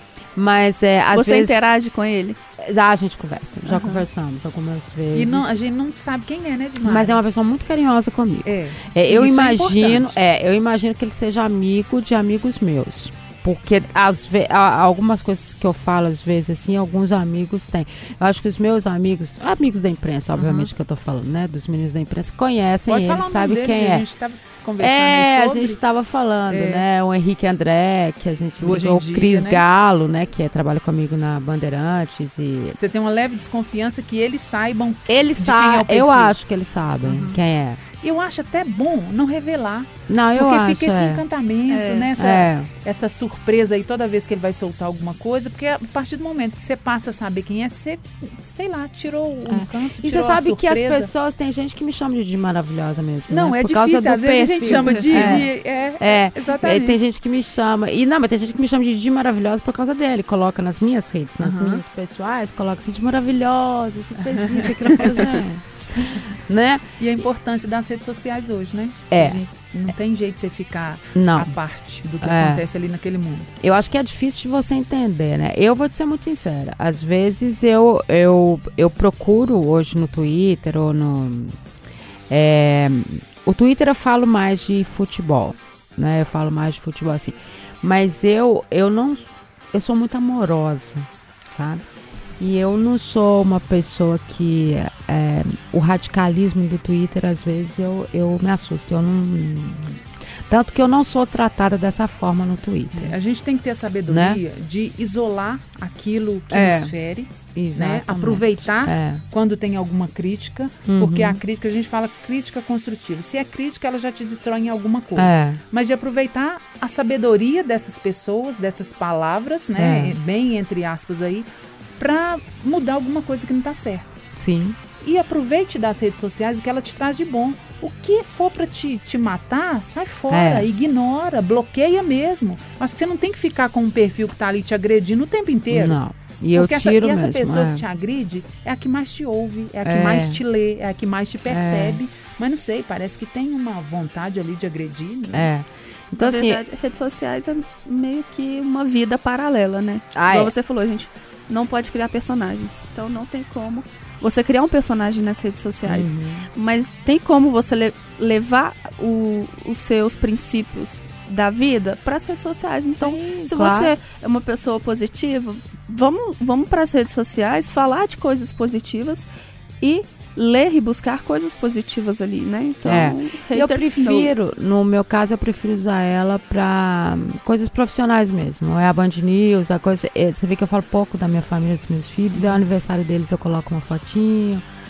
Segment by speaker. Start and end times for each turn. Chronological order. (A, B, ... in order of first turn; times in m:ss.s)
0:00.4-0:01.6 A
0:01.1-0:02.4 B
0:02.6-0:05.6 A
0:03.7-0:04.0 B
0:05.1-0:07.2 C
0:06.8-0:24.0 A
0:08.4-0:10.2 C
0:20.4-0:20.7 C
0:22.9-0:25.8 C
0:24.8-0:32.8 A
0:26.5-0:26.8 C
0:28.6-0:29.6 C
0:32.8-0:36.4 C
0:35.1-0:37.8 A
0:37.0-0:37.4 C
0:37.9-0:51.1 C
0:40.1-0:41.2 A
0:41.7-0:42.1 B
0:42.2-0:42.7 A
0:49.5-1:06.9 A
0:53.3-0:57.0 C
0:54.6-0:55.4 B
1:01.4-1:01.8 C
1:04.4-1:05.3 C
1:07.0-1:13.5 C
1:09.1-1:09.4 A
1:11.2-1:11.5 A
1:12.2-1:12.6 A
1:13.6-1:21.6 A
1:22.3-1:31.8 A
1:32.4-1:43.2 A
1:42.9-2:01.5 C
1:44.1-1:44.4 A
1:46.5-1:46.9 A
1:47.6-1:49.2 A
1:50.9-1:51.4 A
1:55.2-1:55.6 A
1:59.8-2:00.2 A
2:02.0-2:04.2 C
2:04.4-2:04.8 A
2:05.0-2:16.0 C
2:10.3-2:10.7 A
2:15.7-2:17.8 A
2:16.5-2:25.5 C
2:19.8-2:20.4 A
2:21.5-2:22.0 A
2:25.3-2:26.6 A
2:26.2-2:49.3 B
2:30.1-2:30.5 A
2:35.9-2:36.5 A
2:43.0-2:43.9 A
2:49.8-2:54.3 B
2:52.8-3:04.6 A